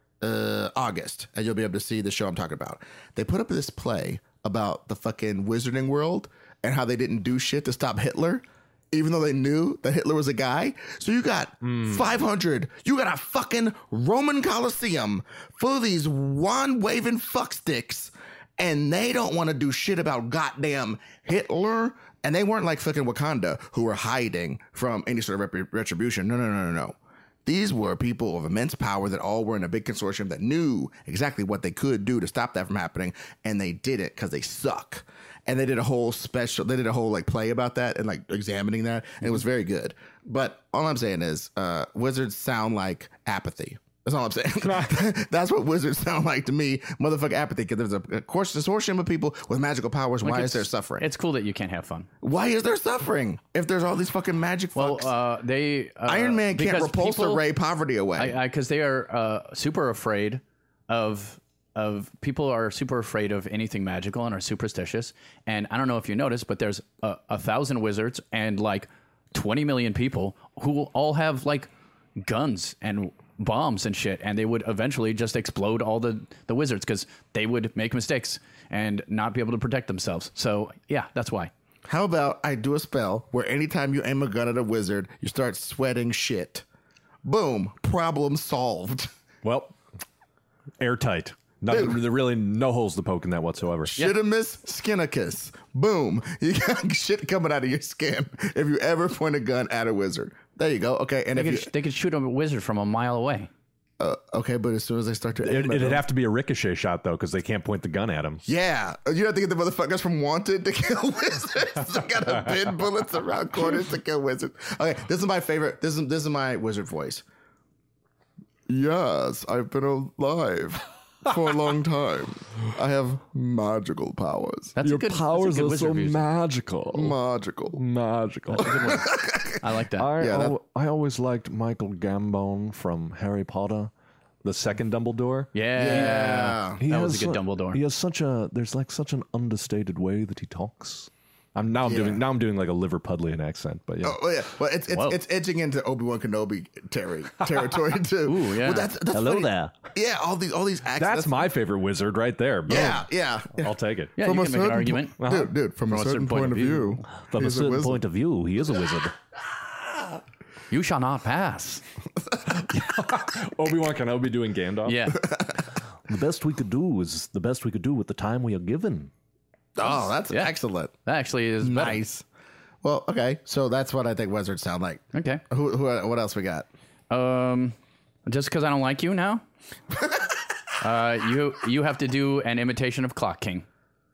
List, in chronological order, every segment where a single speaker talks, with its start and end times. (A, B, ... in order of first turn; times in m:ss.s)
0:00.2-0:51.0 A
0:11.6-0:12.1 B
0:44.6-0:45.1 B
0:50.2-0:52.1 C
0:52.2-0:55.1 A
0:54.8-0:57.4 C
0:56.0-0:58.4 A
0:58.2-1:21.5 C
1:21.9-1:26.6 A
1:27.2-1:29.1 A
1:29.4-1:29.8 B
1:30.8-1:34.0 B
1:31.7-1:32.0 A
1:33.9-1:41.7 A
1:41.3-1:43.5 C
1:44.0-1:46.0 A
1:45.4-1:48.4 B
1:48.4-1:57.2 A
1:58.7-2:04.8 A
2:04.8-2:06.2 C
2:04.8-2:07.2 B
2:06.9-2:07.8 A
2:07.8-2:09.0 B
2:08.6-2:10.1 C
2:08.8-2:09.6 A
2:10.0-2:13.9 B
2:10.2-2:10.6 A
2:14.4-2:15.5 B
2:15.5-2:17.8 C
2:15.7-2:16.8 A
2:16.8-2:24.2 B
2:21.8-2:22.2 A
2:24.0-2:31.5 A
2:24.9-2:25.2 C
2:28.2-2:28.9 C
2:29.1-2:29.8 B
2:31.0-2:34.1 B
2:32.7-2:38.0 A
2:34.2-2:35.2 C
2:35.2-2:35.5 B
2:35.9-2:37.0 C
2:37.1-2:39.1 B
2:40.7-2:41.8 C
2:42.5-2:45.3 B
2:44.9-2:45.2 C
2:45.2-2:45.6 A
2:46.1-2:49.1 B
2:49.8-2:50.9 A
2:49.8-2:52.0 C
2:51.6-2:52.2 A
2:52.8-2:56.7 A
2:55.1-2:55.4 C
2:57.1-2:59.4 C
3:00.8-3:03.6 C